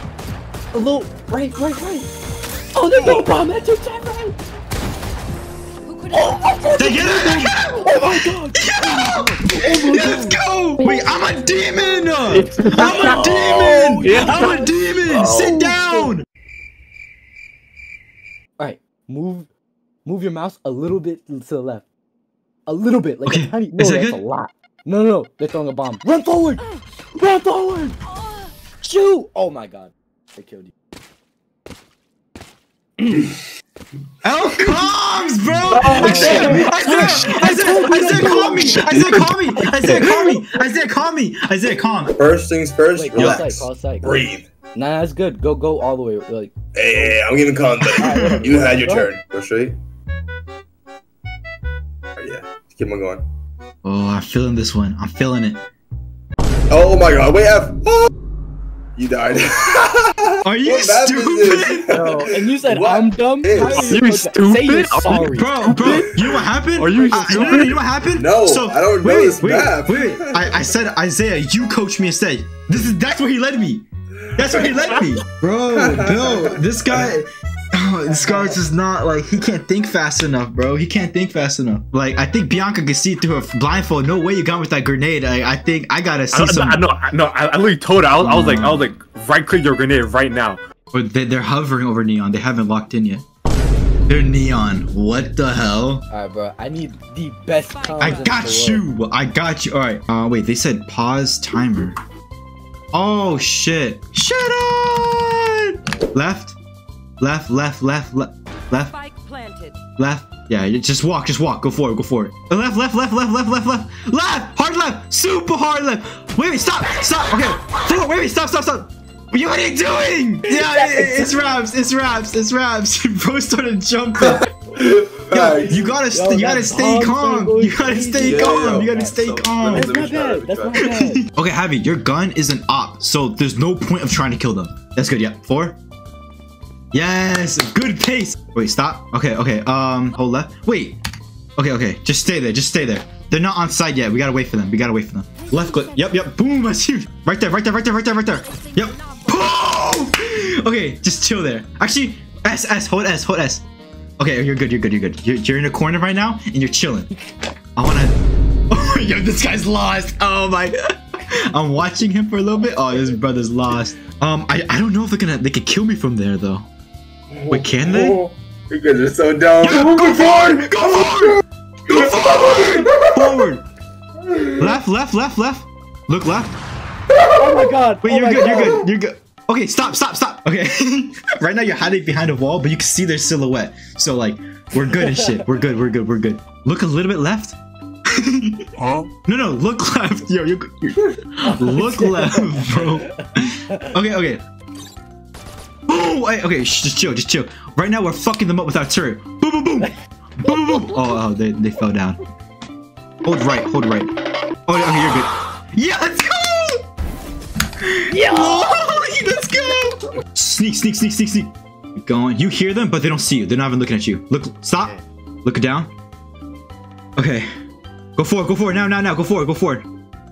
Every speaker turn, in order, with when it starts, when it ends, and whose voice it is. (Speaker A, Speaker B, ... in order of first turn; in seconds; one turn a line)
Speaker A: 0.7-2.1
Speaker A: 2.7-4.3
Speaker B: 5.9-7.1
Speaker A: 6.1-10.4
Speaker C: 6.8-16.2
Speaker D: 12.3-13.4
Speaker A: 12.6-16.1
Speaker D: 14.0-14.6
Speaker A: 18.6-19.5
Speaker A: 20.0-21.8
Speaker A: 22.7-26.6
Speaker C: 23.2-24.2
Speaker A: 27.1-28.0
Speaker A: 28.8-30.7
Speaker C: 34.2-42.1
Speaker A: 35.7-39.2
Speaker E: 42.1-44.5
Speaker A: 42.9-47.2
Speaker C: 43.1-43.5
Speaker E: 46.7-49.8
Speaker A: 48.0-49.1
Speaker C: 48.0-48.4
Speaker E: 52.2-53.2
Speaker C: 53.8-55.6
Speaker E: 56.7-58.1
Speaker E: 59.0-63.9
Speaker C: 60.4-61.9
Speaker A: 61.9-66.0
Speaker D: 63.5-66.2
Speaker C: 65.3-73.8
Speaker D: 66.7-67.8
Speaker E: 68.1-70.7
Speaker C: 74.3-86.8
Speaker E: 74.4-74.8
Speaker D: 74.9-75.2
Speaker E: 75.7-76.6
Speaker D: 86.3-90.6
Speaker C: 88.2-88.9
Speaker C: 90.9-93.2
Speaker C: 94.1-96.0
Speaker A: 96.1-98.9
Speaker B: 97.8-98.3
Speaker C: 98.0-101.9
Speaker C: 102.9-106.5
Speaker C: 107.2-108.9
Speaker B: 108.9-109.8
Speaker C: 110.0-124.4
Speaker A: 120.5-121.3
Speaker E: 124.3-125.8
Speaker C: 125.3-129.9
Speaker A: 126.1-131.2
Speaker E: 128.2-130.8
Speaker C: 130.8-135.8
Speaker C: 136.9-141.0
Speaker C: 141.6-153.6
Speaker B: 145.4-146.0
Speaker B: 148.5-149.4
Speaker C: 154.2-157.1
Speaker C: 157.8-158.2
Speaker C: 158.7-166.7
Speaker E: 167.3-171.2
Speaker C: 167.5-168.2
Speaker C: 169.6-173.6
Speaker E: 171.9-173.3
Speaker E: 174.3-174.7
Speaker C: 174.6-176.5
Speaker A: 177.2-178.9
Speaker C: 178.0-187.6
Speaker A: 184.9-185.4
Speaker C: 188.1-188.7
Speaker C: 189.2-194.4
Speaker A: 191.4-193.8
Speaker C: 195.9-202.2
Speaker A: 200.5-200.9
Speaker C: 203.2-204.1
Speaker C: 204.7-206.8
Speaker C: 207.8-215.9
Speaker A: 208.1-208.8
Speaker C: 217.2-217.5
Speaker C: 218.2-219.8